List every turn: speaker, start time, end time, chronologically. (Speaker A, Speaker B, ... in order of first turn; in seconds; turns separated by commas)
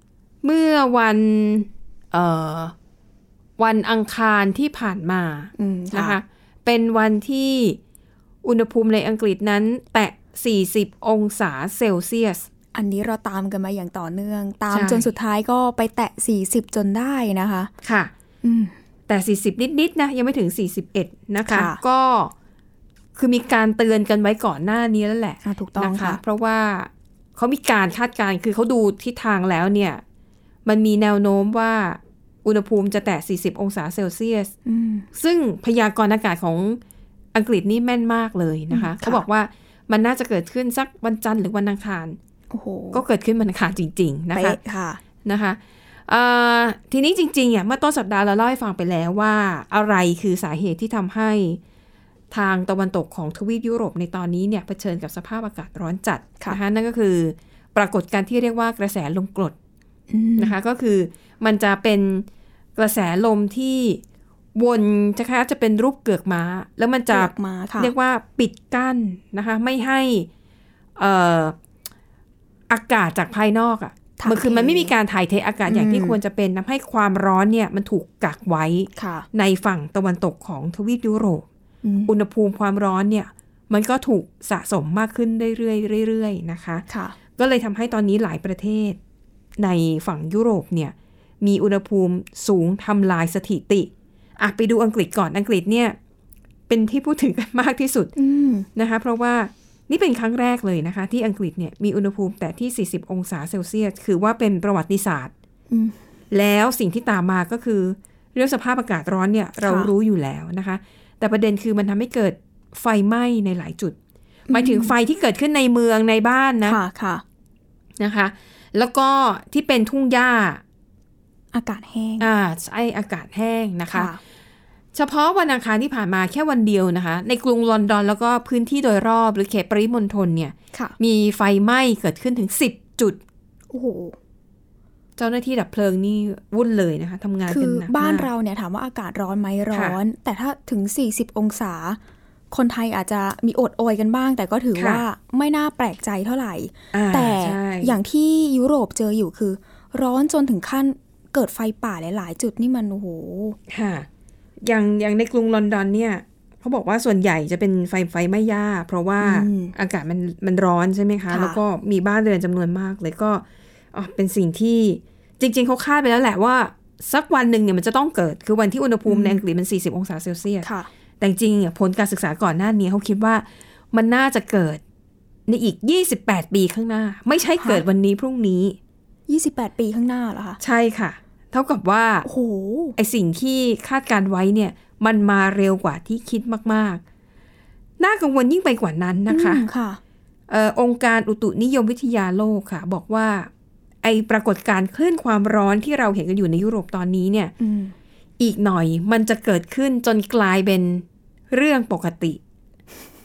Speaker A: 0.4-2.7, Speaker A: 3.6-7.8, Speaker B: 5.6-6.2, Speaker A: 8.4-12.5, Speaker B: 12.7-17.7, Speaker A: 14.7-15.1, Speaker A: 17.8-18.1, Speaker B: 18.4-18.7, Speaker A: 19.1-22.3, Speaker B: 21.4-21.8, Speaker A: 23.1-30.0, Speaker B: 25.4-26.2, Speaker A: 30.6-34.5, Speaker B: 34.6-35.1, Speaker A: 35.1-36.8, Speaker A: 37.3-42.2, Speaker B: 38.7-39.2, Speaker B: 42.5-43.0, Speaker A: 42.9-44.6, Speaker B: 44.3-45.0, Speaker A: 45.2-51.6, Speaker A: 52.3-59.5, Speaker B: 60.1-60.5, Speaker A: 60.4-64.0, Speaker A: 64.5-70.3, Speaker B: 67.1-67.9, Speaker A: 71.0-71.5, Speaker A: 72.7-81.4, Speaker B: 74.2-74.9, Speaker B: 75.7-76.2, Speaker B: 79.0-79.2, Speaker B: 81.8-82.1, Speaker A: 82.1-86.8, Speaker B: 86.9-87.2, Speaker A: 87.3-89.0, Speaker A: 89.6-96.0, Speaker A: 96.7-98.1, Speaker B: 98.2-98.7, Speaker A: 98.7-105.3, Speaker B: 105.7-106.0, Speaker A: 106.3-114.0, Speaker B: 109.6-109.9, Speaker B: 114.5-114.9, Speaker A: 114.5-116.8, Speaker B: 116.6-117.2, Speaker A: 118.0-120.6, Speaker B: 121.5-122.3, Speaker A: 122.2-124.1, Speaker B: 123.9-124.2, Speaker A: 124.9-133.2, Speaker B: 133.7-134.2, Speaker A: 135.2-138.3, Speaker B: 137.5-142.0, Speaker A: 139.7-140.0, Speaker B: 142.5-153.6, Speaker A: 144.7-145.0, Speaker A: 146.9-147.9, Speaker A: 153.7-154.1, Speaker A: 154.6-170.7, Speaker B: 159.2-159.7, Speaker B: 161.3-161.6, Speaker B: 169.1-169.4, Speaker B: 170.6-170.9, Speaker A: 171.2-174.8, Speaker A: 175.5-178.8, Speaker B: 177.6-177.8, Speaker B: 179.3-180.6, Speaker A: 180.6-182.2, Speaker B: 182.2-182.9, Speaker A: 182.9-187.0, Speaker A: 188.0-189.7, Speaker B: 189.3-190.0, Speaker A: 190.5-193.5, Speaker A: 194.0-197.5, Speaker B: 197.6-197.9, Speaker A: 198.4-202.4